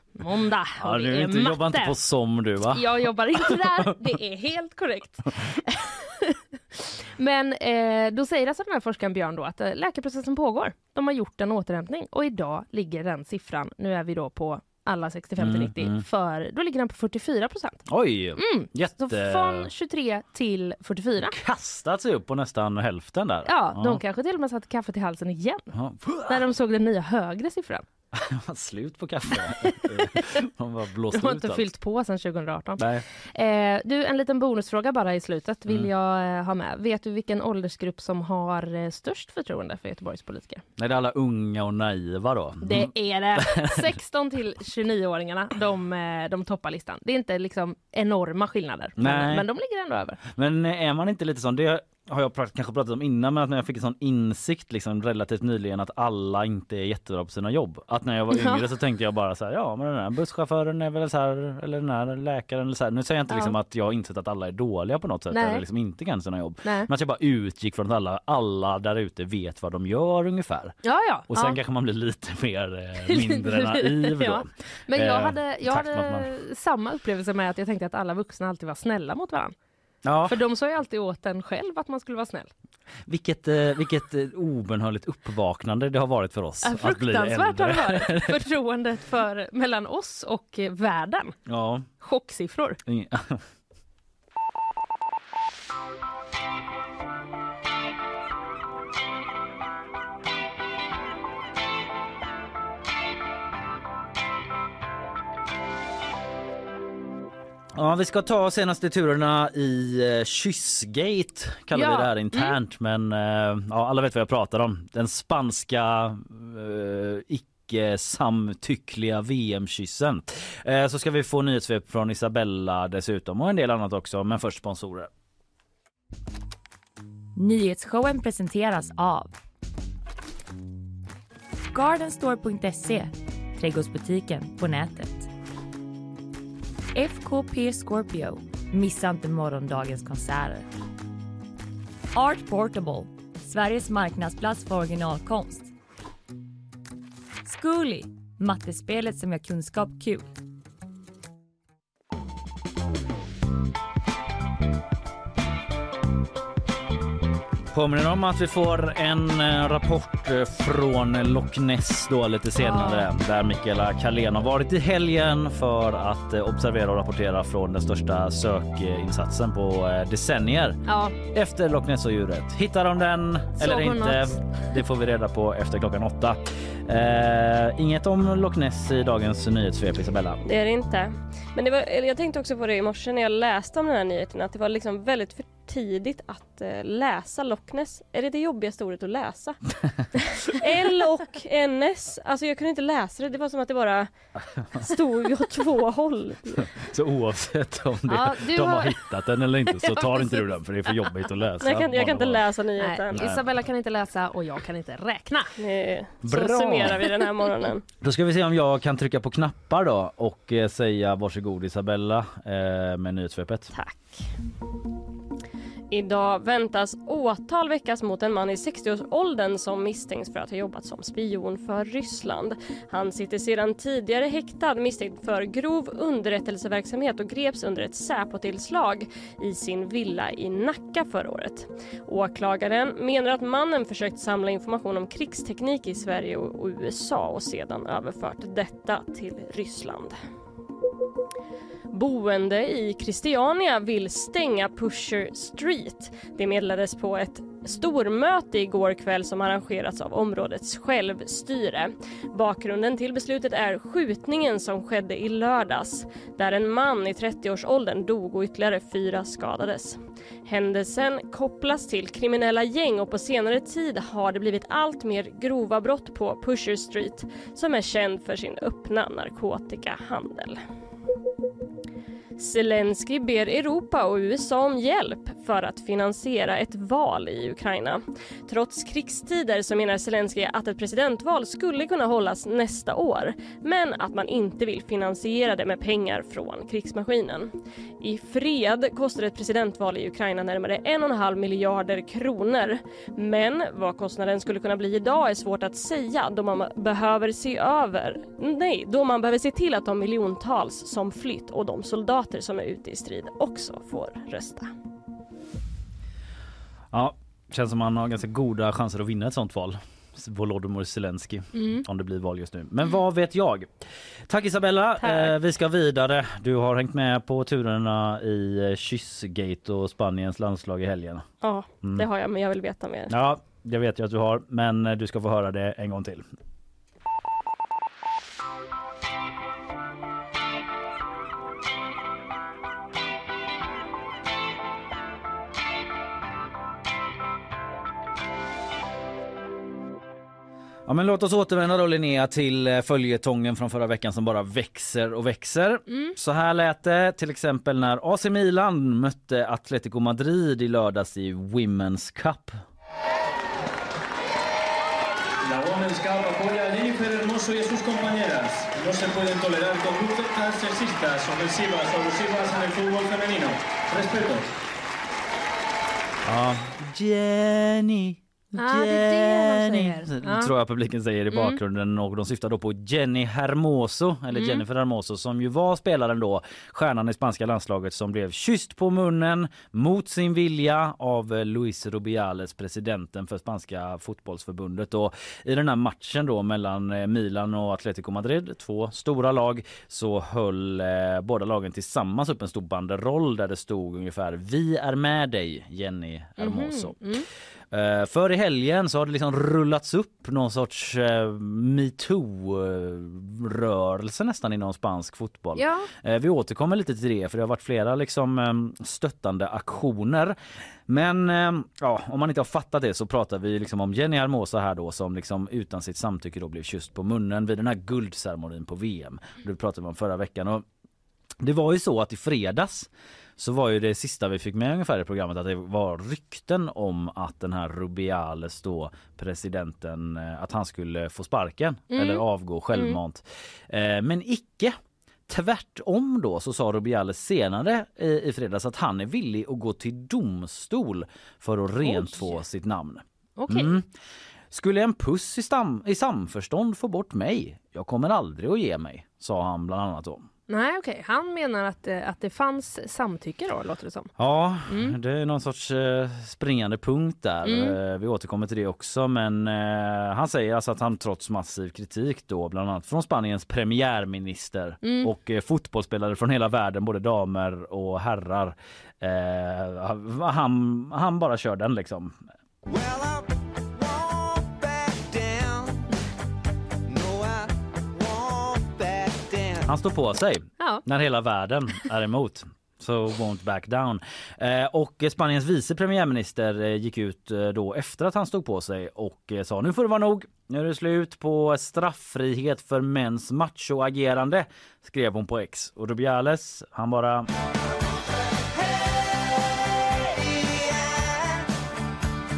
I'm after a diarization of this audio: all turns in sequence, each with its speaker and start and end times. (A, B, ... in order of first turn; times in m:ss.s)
0:00.2-0:02.0 A
0:00.8-0:04.0 B
0:02.7-0:17.8 A
0:15.4-0:16.0 B
0:17.9-0:19.7 B
0:18.4-0:21.4 A
0:21.2-0:24.0 B
0:23.5-0:25.7 A
0:25.7-0:26.5 B
0:26.3-0:27.8 A
0:28.1-0:31.7 B
0:29.6-0:30.4 A
0:31.1-0:40.6 A
0:32.8-0:33.0 B
0:40.8-0:43.9 B
0:42.6-0:50.2 A
0:49.0-0:49.5 B
0:50.2-1:10.8 B
0:58.3-0:58.6 A
1:03.3-1:03.5 A
1:05.3-1:05.6 A
1:06.6-1:06.9 A
1:10.8-1:11.6 A
1:11.3-1:16.3 B
1:13.1-1:19.5 A
1:20.0-1:20.4 B
1:20.2-1:22.5 A
1:23.1-1:28.4 B
1:26.6-1:31.4 A
1:31.5-1:31.9 B
1:32.0-1:32.8 A
1:32.9-1:33.4 B
1:47.8-2:05.1 B
1:51.7-1:52.6 A
2:07.4-2:09.3 C
2:11.7-2:15.3 C
2:17.0-2:20.6 C
2:22.1-2:25.7 C
2:27.4-2:30.2 C
2:37.7-3:00.4 B
2:42.6-2:43.1 A
2:50.8-2:51.2 A
2:53.6-2:54.5 A
3:00.4-3:14.1 D
3:14.4-3:14.9 B
3:14.7-3:16.8 D
3:16.6-3:22.4 B
3:18.1-3:19.0 A
3:19.7-3:21.1 A
3:21.6-3:23.4 D
3:22.8-3:25.5 A
3:23.1-3:23.4 B
3:25.6-3:27.8 D
3:26.2-3:27.1 B
3:28.0-3:33.7 B
3:33.7-3:34.2 D
3:35.9-4:00.2 D
4:01.9-4:30.6 D
4:32.4-5:04.7 D
5:06.9-5:21.2 B
5:11.6-5:11.8 A
5:21.4-5:23.1 D
5:23.1-5:26.2 B
5:40.9-5:52.6 B
5:45.9-5:46.1 A
5:55.4-6:04.5 E
6:06.2-6:37.0 B
6:08.5-6:10.5 A
6:11.3-6:11.6 A
6:14.3-6:14.6 A
6:36.4-6:37.3 A
6:37.7-6:50.4 B
6:45.6-6:45.9 A
6:50.9-7:00.6 B
7:01.4-7:14.8 B
7:11.9-7:13.0 A
7:15.3-7:23.9 B
7:21.8-7:22.4 A
7:23.4-7:23.7 A
7:24.5-7:30.3 B
7:30.5-7:34.1 A
7:34.2-7:52.2 B
7:34.7-7:34.9 A
7:37.4-7:37.8 A
7:44.8-7:45.1 A
7:52.6-7:55.9 F
7:56.9-7:59.7 F
7:59.7-8:17.3 B
8:18.5-8:21.5 F